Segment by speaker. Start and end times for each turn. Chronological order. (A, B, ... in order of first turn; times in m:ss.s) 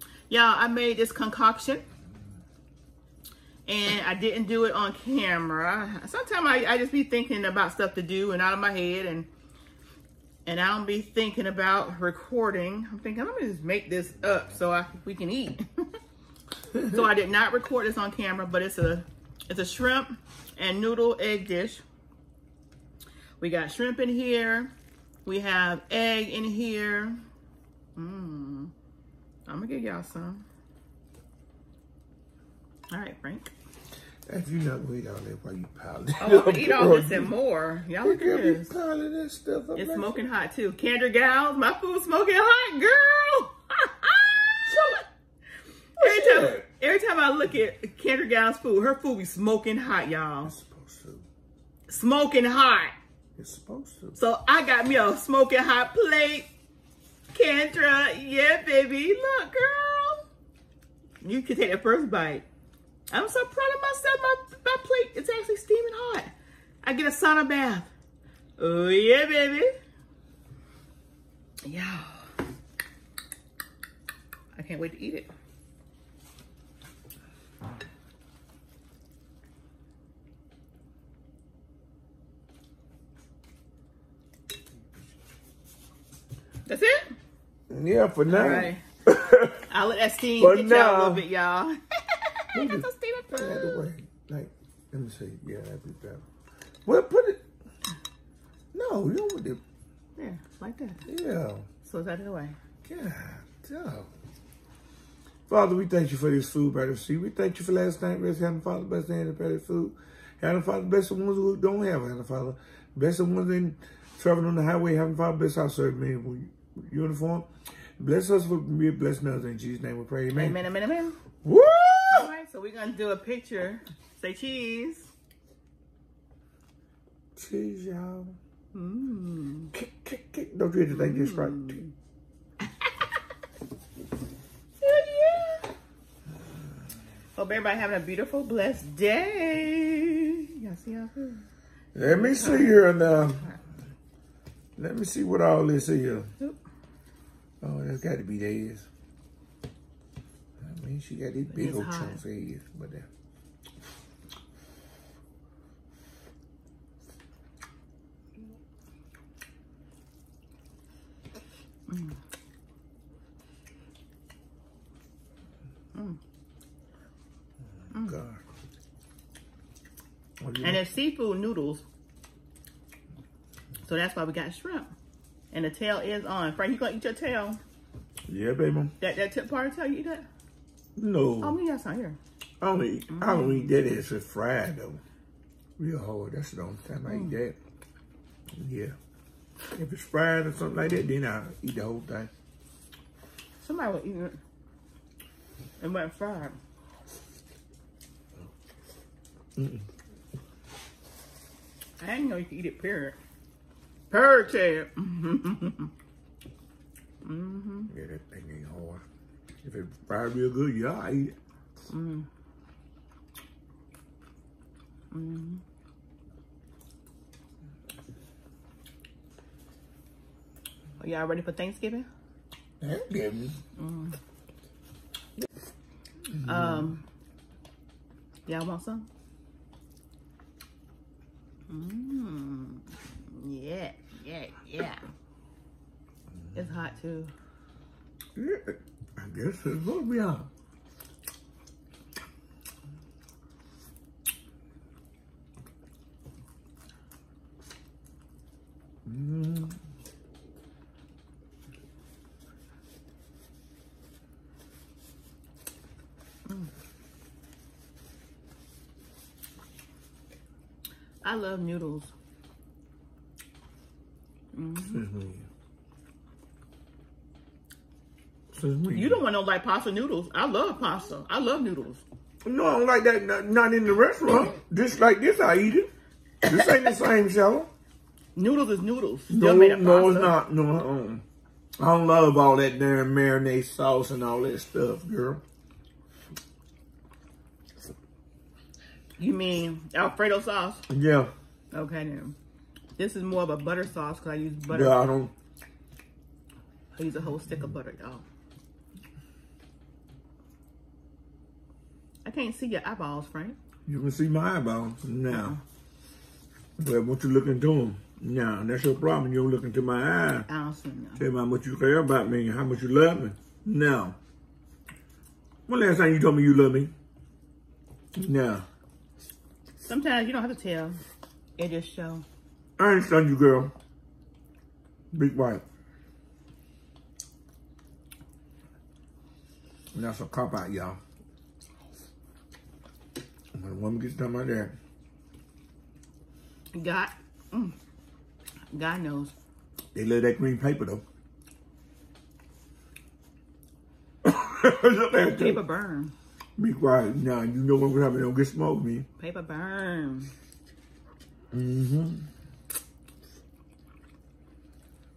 0:00.3-0:01.8 A
0:03.7-0:09.3 A
0:10.4-0:15.9 A
0:16.7-0:21.8 A
0:23.4-0:24.7 A
0:25.2-0:27.2 A
0:28.0-0:28.7 A
0:29.5-0:30.4 A
0:32.9-0:33.5 A
0:34.2-0:37.3 B
0:36.2-0:38.7 A
0:38.0-0:40.2 B
0:39.7-0:45.0 A
0:44.7-0:45.0 B
0:46.0-0:46.6 B
0:46.0-0:50.5 A
0:50.4-0:51.2 B
0:51.9-0:52.9 A
0:53.4-0:54.2 B
0:54.2-0:56.5 A
0:57.3-1:00.2 A
1:01.2-1:02.4 A
1:03.1-1:07.9 A
1:08.6-1:09.7 A
1:11.6-1:12.3 A
1:14.6-1:15.3 A
1:26.6-1:27.1 A
1:27.7-1:29.7 B
1:28.3-1:28.8 A
1:29.7-1:33.8 A
1:30.4-1:31.3 B
1:32.5-1:36.2 B
1:36.8-1:37.5 B
1:38.7-1:39.6 B
1:40.2-1:41.0 A
1:41.0-1:41.7 B
1:41.8-1:42.6 A
1:42.8-1:44.1 B
1:45.5-2:00.6 B
2:00.3-2:01.2 A
2:01.4-2:02.3 B
2:02.1-2:05.1 A
2:07.4-2:08.4 B
2:08.7-2:09.7 A
2:09.7-2:11.8 B
2:10.9-2:11.9 A
2:12.8-2:13.1 A
2:14.8-2:15.7 A
2:17.4-2:21.4 A
2:21.9-2:23.5 B
2:22.0-2:23.6 A
2:24.8-2:26.3 B
2:27.6-2:28.9 B
2:30.6-2:33.1 B
2:31.5-2:32.2 A
2:41.9-2:42.1 A
2:45.9-2:46.2 A
2:47.9-2:48.2 A
2:47.9-2:48.4 B
2:50.4-2:50.8 B
2:50.6-2:51.8 A
2:53.8-2:54.9 A
2:55.5-2:57.6 A
2:58.3-2:58.9 B
2:59.0-3:00.3 A
3:01.0-3:01.6 B
3:01.4-3:02.2 A
3:02.6-3:05.0 B
3:03.1-3:03.7 A
3:05.8-3:07.6 B
3:07.1-3:07.4 A
3:08.5-3:09.0 B
3:09.7-3:12.3 B
3:13.6-3:14.4 A
3:15.8-3:16.6 A
3:19.6-3:19.8 B
3:22.0-3:23.2 A
3:24.1-3:25.9 A
3:27.2-3:27.9 A
3:27.9-3:29.0 B
3:29.6-3:31.4 B
3:31.9-3:32.3 A
3:35.1-3:35.6 A
3:41.0-3:42.1 A
3:42.8-3:43.6 B
3:43.8-3:44.2 A
3:46.4-3:46.8 B
3:46.4-3:47.0 A
3:48.4-3:49.0 A
3:51.7-3:55.1 A
3:56.5-3:57.3 A
3:58.3-4:00.5 B
4:09.0-4:09.8 B
4:21.2-4:22.1 A
4:24.5-4:25.0 A
4:24.9-4:25.5 B
4:28.5-4:29.2 B
4:28.9-4:32.0 A
4:32.4-4:35.9 B
4:36.4-4:37.0 A
4:36.4-4:37.7 B
4:38.4-4:40.3 A
4:39.3-4:41.2 B
4:41.8-4:45.4 B
4:49.2-4:50.8 A
4:50.9-4:51.3 B
4:51.7-4:52.4 A
4:53.0-4:55.0 A
4:54.7-4:55.3 B
4:56.9-4:58.2 A
5:02.2-5:03.6 A
5:03.8-5:05.6 B
5:05.3-5:05.6 A
5:06.8-5:10.5 B
5:10.5-5:11.2 A
5:11.2-5:14.2 B
5:15.7-5:16.9 B
5:18.1-5:18.6 B
5:19.8-5:21.0 A
5:21.6-5:22.2 A
5:22.8-5:23.7 B
5:25.1-5:25.6 B
5:29.9-5:31.0 B
5:33.5-5:34.7 B
5:36.7-5:37.8 A
5:38.7-5:39.3 A
5:39.9-5:41.0 B
5:44.2-5:45.6 B
5:45.2-5:46.1 A
5:46.6-5:49.1 B
5:49.2-5:50.3 A
5:51.5-5:52.3 B